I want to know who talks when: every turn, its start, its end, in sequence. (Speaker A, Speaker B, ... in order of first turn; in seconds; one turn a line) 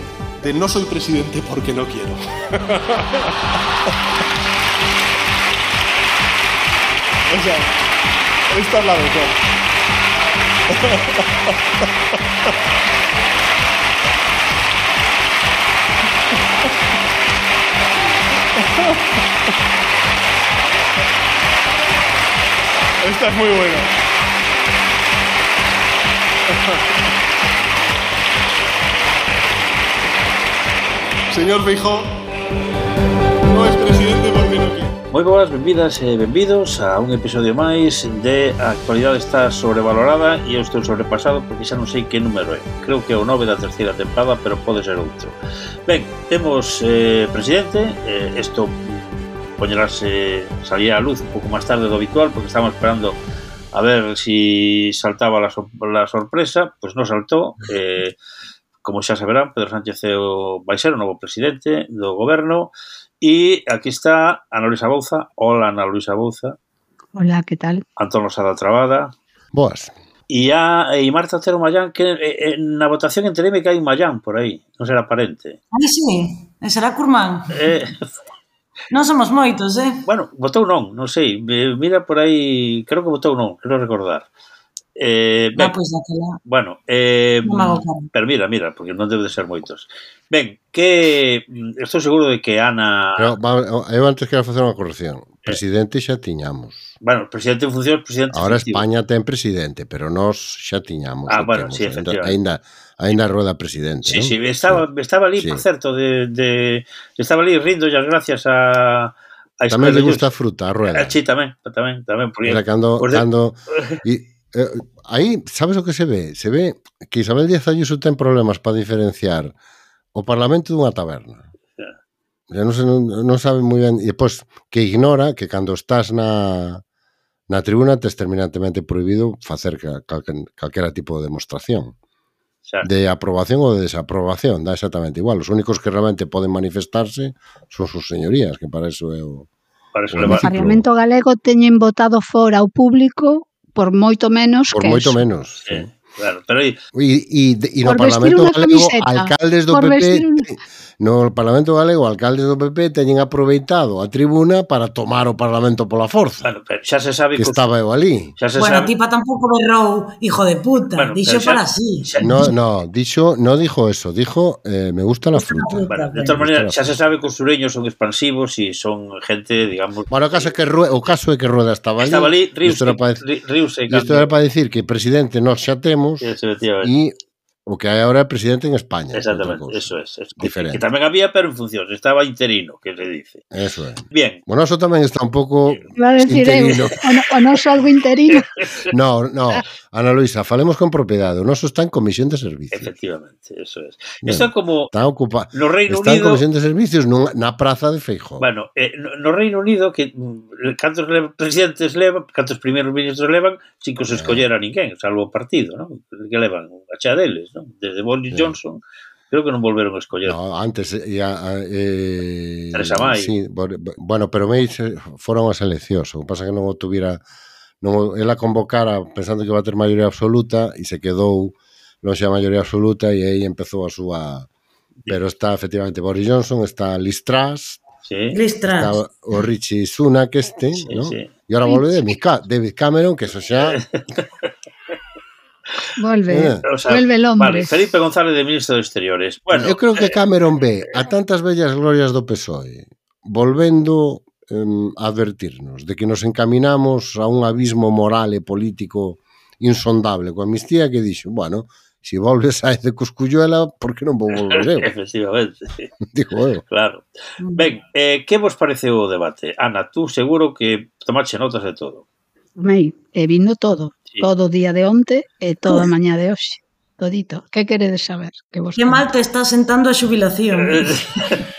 Speaker A: 0.4-2.2
Speaker A: 2.7-3.3
Speaker A: 7.3-7.7
Speaker A: 8.5-9.3
Speaker A: 18.6-19.0
Speaker A: 23.0-23.9
Speaker A: 31.3-32.1
Speaker A: 33.4-34.9
Speaker B: 35.1-45.3
Speaker B: 45.9-53.2
Speaker B: 53.7-58.1
Speaker B: 58.8-66.6
Speaker C: 67.1-67.8
Speaker B: 68.0-69.1
Speaker D: 69.5-69.9
Speaker B: 70.3-75.6
Speaker E: 75.7-77.7
Speaker B: 77.5-78.0
Speaker E: 78.9-80.0
Speaker B: 80.0-84.3
Speaker B: 85.0-85.7
Speaker E: 85.6-86.4
Speaker B: 86.4-93.3
Speaker E: 87.4-88.1
Speaker D: 93.2-96.9
Speaker B: 97.0-98.8
Speaker D: 98.3-104.8
Speaker B: 101.3-102.3
Speaker B: 104.0-110.2
Speaker D: 105.4-105.6
Speaker D: 109.7-111.2
Speaker B: 110.9-114.0
Speaker D: 112.4-119.5
Speaker D: 120.1-121.5
Speaker D: 122.5-126.8
Speaker D: 127.5-131.9
Speaker D: 132.8-139.5
Speaker B: 139.9-140.5
Speaker D: 140.1-140.8
Speaker C: 140.2-145.2
Speaker D: 144.7-145.9
Speaker B: 145.6-146.8
Speaker D: 146.9-156.5
Speaker C: 147.8-150.5
Speaker B: 156.4-157.7
Speaker D: 157.3-158.3
Speaker B: 158.4-158.9
Speaker E: 158.6-162.5
Speaker B: 160.9-162.3
Speaker D: 162.2-166.8
Speaker E: 165.3-166.3
Speaker B: 165.9-170.5
Speaker D: 170.1-173.2
Speaker B: 172.0-174.3
Speaker D: 173.9-177.2
Speaker B: 176.2-176.9
Speaker D: 177.7-180.8
Speaker B: 179.1-183.4
Speaker D: 183.5-187.0
Speaker B: 184.1-184.4
Speaker C: 185.9-188.5
Speaker B: 188.3-188.9
Speaker D: 188.9-192.9
Speaker B: 192.7-194.9
Speaker D: 194.2-198.5
Speaker B: 195.5-196.4
Speaker B: 198.4-210.4
Speaker D: 204.1-204.4
Speaker D: 208.3-208.6
Speaker D: 210.2-217.2
Speaker B: 212.7-213.3
Speaker D: 217.8-224.5
Speaker D: 225.1-227.8
Speaker B: 228.1-228.3
Speaker E: 228.3-229.0
Speaker D: 228.7-233.8
Speaker B: 230.8-231.3
Speaker B: 233.6-234.5
Speaker C: 236.0-237.7
Speaker D: 236.3-236.7
Speaker B: 236.7-240.1
Speaker D: 239.5-254.9
Speaker B: 254.3-255.9
Speaker D: 256.1-256.6
Speaker B: 256.7-257.0
Speaker E: 257.4-257.7
Speaker B: 257.6-262.0
Speaker C: 262.6-269.1
Speaker E: 268.8-271.0
Speaker B: 270.5-271.4